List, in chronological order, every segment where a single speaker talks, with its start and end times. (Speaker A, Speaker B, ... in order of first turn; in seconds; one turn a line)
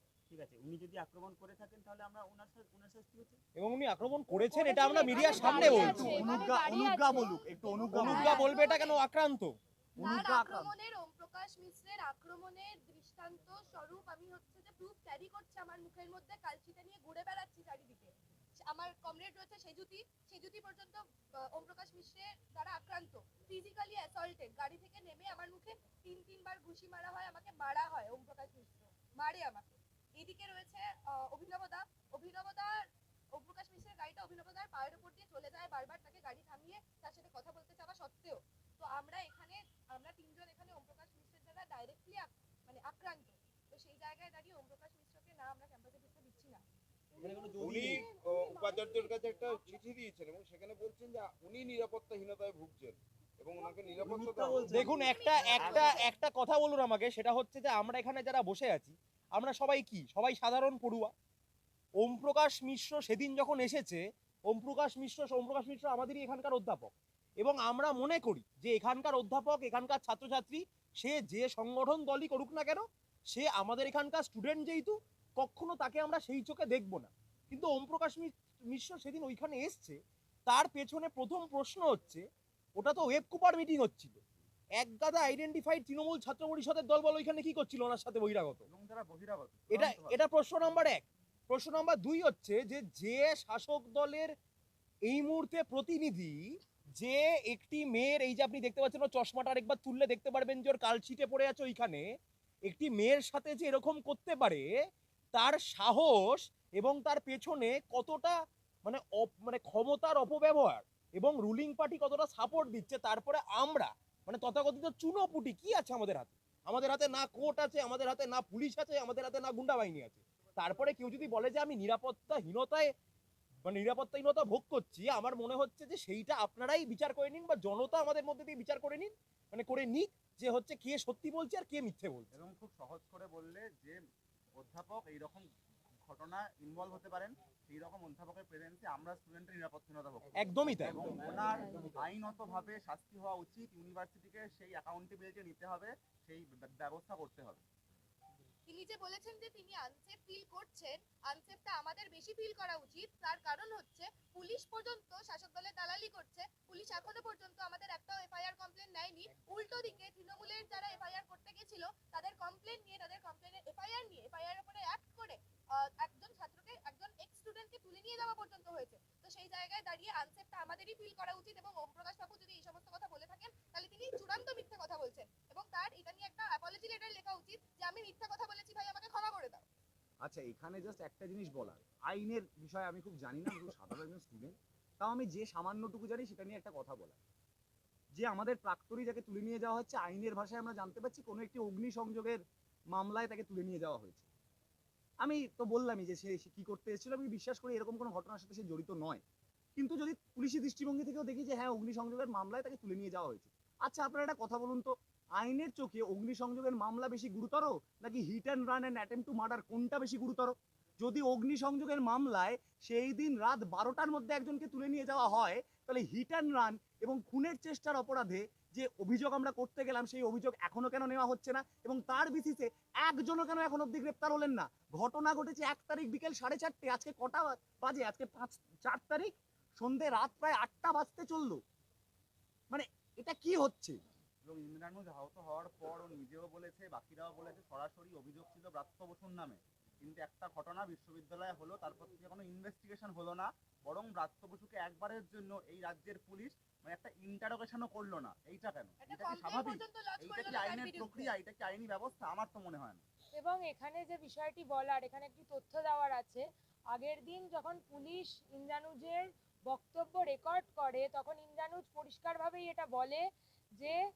Speaker A: 0.3-3.3
Speaker B: 3.5-6.0
Speaker C: 4.3-7.4
Speaker D: 4.9-9.0
Speaker E: 5.6-8.4
Speaker B: 7.9-9.5
Speaker E: 10.0-10.7
Speaker D: 10.0-49.7
Speaker F: 47.3-54.9
Speaker E: 54.2-54.6
Speaker B: 54.7-61.1
Speaker D: 54.7-56.2
Speaker F: 55.5-56.0
Speaker A: 55.6-55.9
Speaker B: 62.0-82.2
Speaker B: 82.8-84.2
Speaker B: 84.8-88.6
Speaker A: 88.7-90.2
Speaker B: 89.7-94.3
Speaker B: 95.1-96.4
Speaker B: 97.0-102.0
Speaker B: 102.7-104.7
Speaker B: 105.3-122.9
Speaker B: 123.6-132.3
Speaker A: 132.3-134.0
Speaker A: 134.6-135.4
Speaker A: 136.0-147.6
Speaker B: 140.4-141.0
Speaker C: 141.5-141.9
Speaker D: 148.7-179.7
Speaker E: 180.2-187.2
Speaker E: 188.1-192.4
Speaker E: 192.9-194.3
Speaker E: 195.2-199.2
Speaker E: 199.8-231.6
Speaker E: 232.7-234.0
Speaker A: 234.4-253.0
Speaker D: 249.0-251.3
Speaker C: 253.3-263.2